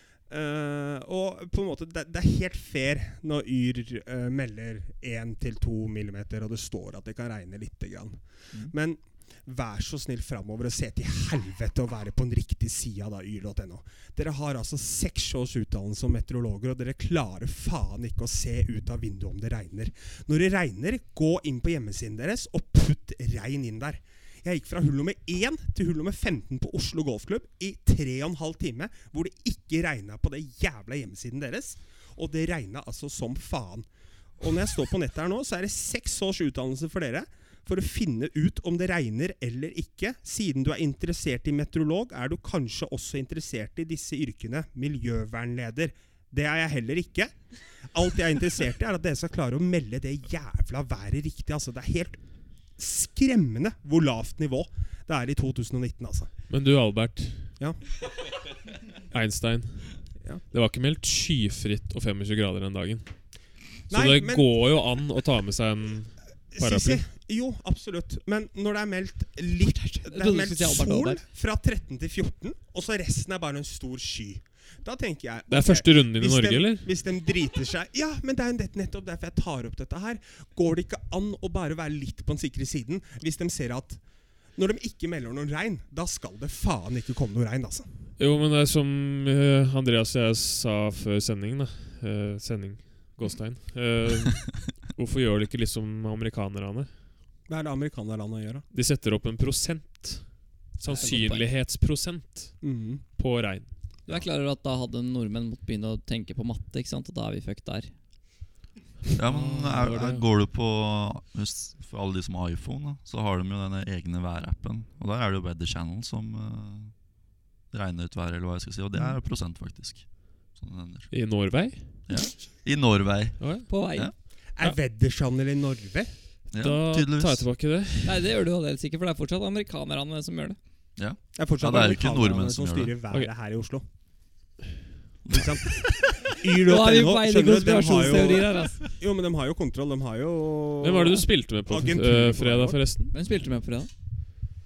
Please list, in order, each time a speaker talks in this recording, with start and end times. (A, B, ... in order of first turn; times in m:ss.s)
0:00.3-0:33.9 A
0:34.4-0:52.2 A
0:52.8-0:56.3 A
0:56.5-0:57.5 B
0:59.1-1:03.1 B
1:03.9-1:07.0 B
1:03.9-1:04.5 A
1:06.5-1:24.0 A
1:10.1-1:11.2 C
1:15.5-1:16.9 B
1:24.6-1:27.9 A
1:28.2-1:36.9 B
1:37.5-1:38.6 A
1:38.7-1:43.8 B
1:40.9-1:41.4 C
1:42.6-1:43.0 A
1:44.1-1:47.9 C
1:49.2-2:01.1 D
1:49.3-1:50.2 B
2:01.1-2:02.0 B
2:02.1-2:04.1 D
2:03.4-2:03.7 B
2:03.7-2:04.1 C
2:04.6-2:06.1 A
2:06.5-2:07.5 D
2:06.5-2:08.2 B
2:08.0-2:10.6 C
2:11.0-2:13.0 D
2:11.4-2:13.8 A
2:15.3-2:15.9 D
2:15.3-2:22.8 A
2:16.6-2:18.8 C
2:20.8-2:23.1 B
2:23.1-2:23.9 C